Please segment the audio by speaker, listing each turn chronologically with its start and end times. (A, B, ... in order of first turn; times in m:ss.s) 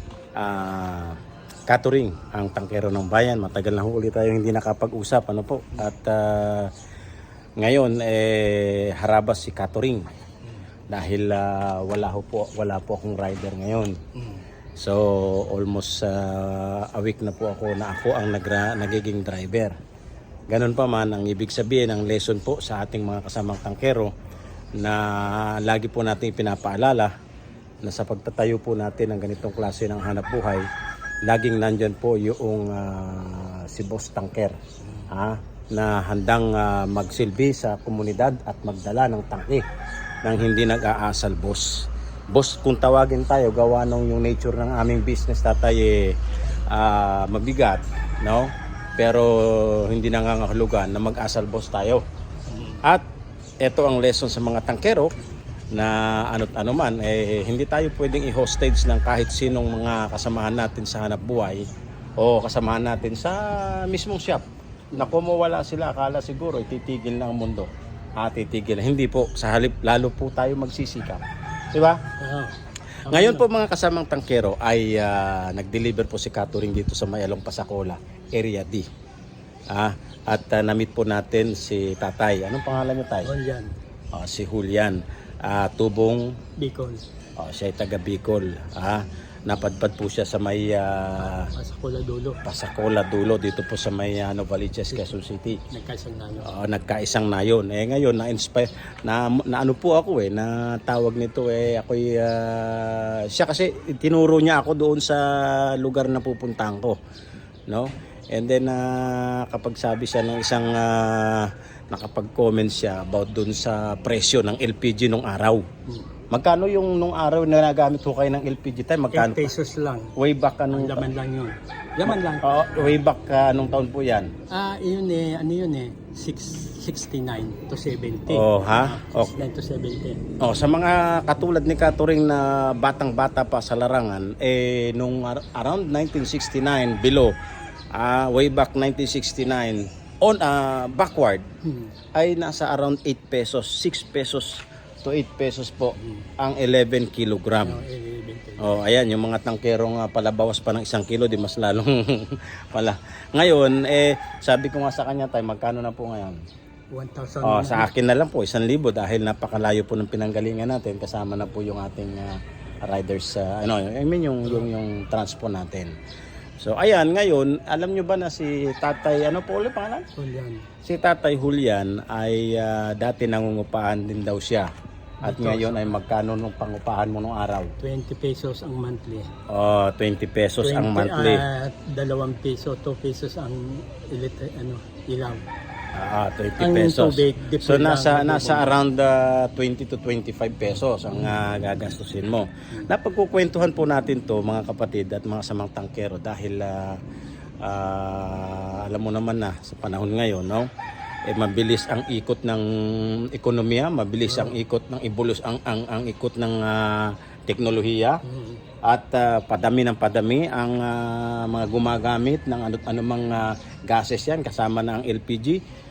0:00.4-0:01.2 A
0:01.7-0:06.7 A
0:07.6-0:10.1 A
0:10.9-0:14.0 A
0:14.1-0:14.4 B
0:14.8-0:19.7 A
0:20.5-0:24.1 A
0:24.8-0:27.1 A
0:27.8-0:30.6 A
0:31.3-0:34.6 A
0:35.1-0:39.6 A
0:40.2-0:46.1 A
0:46.7-0:52.0 A
0:52.5-0:52.8 B
0:53.6-0:55.1 A
0:55.7-1:01.7 A
1:02.2-1:12.0 A
1:12.2-1:13.4 B
1:13.1-1:18.8 A
1:19.7-1:23.3 A
1:23.2-1:23.7 B
1:24.1-1:26.3 A
1:26.6-1:27.0 B
1:27.4-1:31.5 A
1:31.2-1:32.4 B
1:32.4-1:35.6 A
1:35.7-1:36.6 B
1:36.4-1:47.0 A
1:47.7-1:55.6 A
1:56.3-1:59.5 A
1:59.1-2:00.1 B
2:00.2-2:01.0 A
2:00.7-2:02.9 B
2:02.4-2:04.3 A
2:04.5-2:10.2 B
2:08.3-2:09.3 A
2:10.4-2:17.3 A
2:17.9-2:21.5 A
2:21.6-2:21.9 B
2:22.2-2:27.8 A
2:26.0-2:26.3 B
2:27.6-2:28.7 B
2:28.6-2:36.4 A
2:36.9-2:37.9 B
2:37.4-2:45.9 A
2:46.6-2:50.0 A
2:50.2-2:50.7 B
2:50.8-2:54.7 A
2:55.2-2:55.9 B
2:55.2-2:57.7 A
2:57.8-2:59.3 B
2:59.5-3:01.4 A
3:00.6-3:05.4 B
3:05.9-3:17.0 A
3:06.6-3:08.8 B
3:17.6-3:20.7 A
3:21.3-3:28.2 A
3:24.2-3:24.6 B
3:28.2-3:28.6 B
3:28.8-3:35.6 A